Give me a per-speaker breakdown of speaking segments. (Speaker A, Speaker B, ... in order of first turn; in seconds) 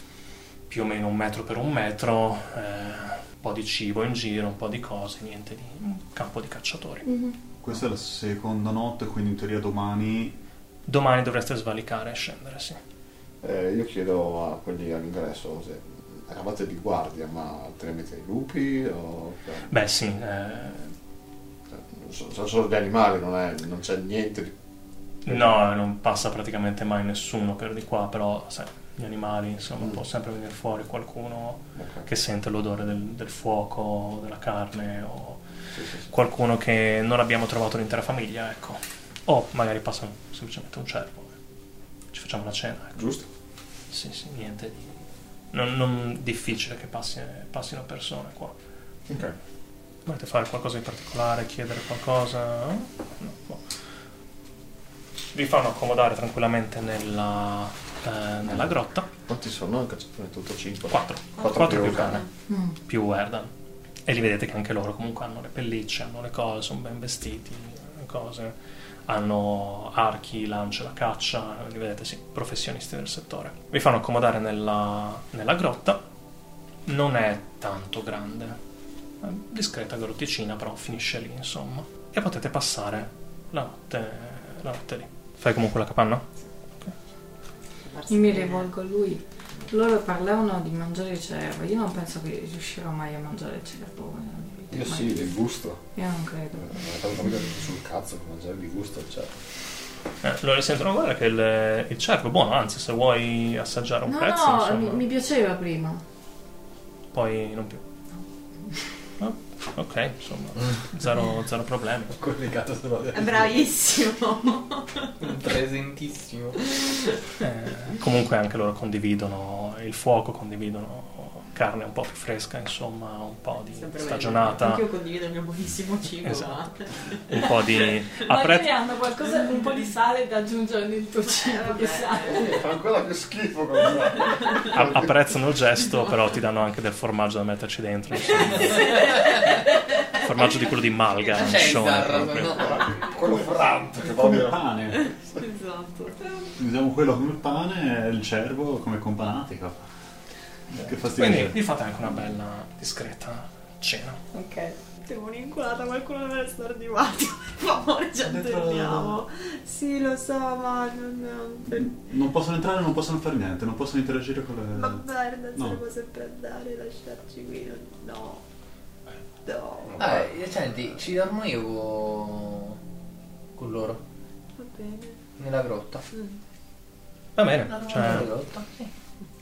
Speaker A: 0.7-7.1, 10.9-12.8, 19.7-20.9, 25.2-35.4, 36.1-41.4, 42.1-43.0, 43.9-45.0, 45.5-48.6, 50.1-53.6, 55.3-59.1, 60.9-62.3, 62.9-63.5, 64.1-68.5, 69.1-76.0, 76.9-78.6, 79.2-86.3, 100.2-105.0, 107.1-107.8, 109.2-112.1, 117.4-124.9, 127.3-128.7, 134.7-138.9, 140.1-142.7, 151.1-154.2, 177.4-178.3
Speaker B: 7.1-7.4, 62.5-62.8, 88.1-95.2, 96.0-96.7, 104.1-106.0, 128.2-132.5, 154.3-154.8
Speaker C: 7.6-10.4, 144.0-145.1, 146.6-149.8, 150.7-151.6, 158.2-159.2, 161.7-165.0, 165.6-165.8
Speaker D: 13.4-19.7, 21.7-24.5, 25.3-25.5, 31.8-32.0, 35.7-36.1, 43.0-43.3, 49.1-49.4, 59.3-62.2, 94.7-95.8, 96.6-99.4, 132.2-135.1, 142.9-144.6
Speaker E: 87.8-88.7, 113.1-115.1, 123.7-127.5, 131.3-132.6, 138.4-140.2, 145.0-146.5, 155.0-161.9, 164.8-168.4, 169.5-170.0, 174.6-175.2, 176.1-176.4
Speaker F: 112.1-113.5, 115.2-116.9, 141.2-142.9, 170.0-172.8, 173.6-174.0, 175.4-176.1, 177.7-178.9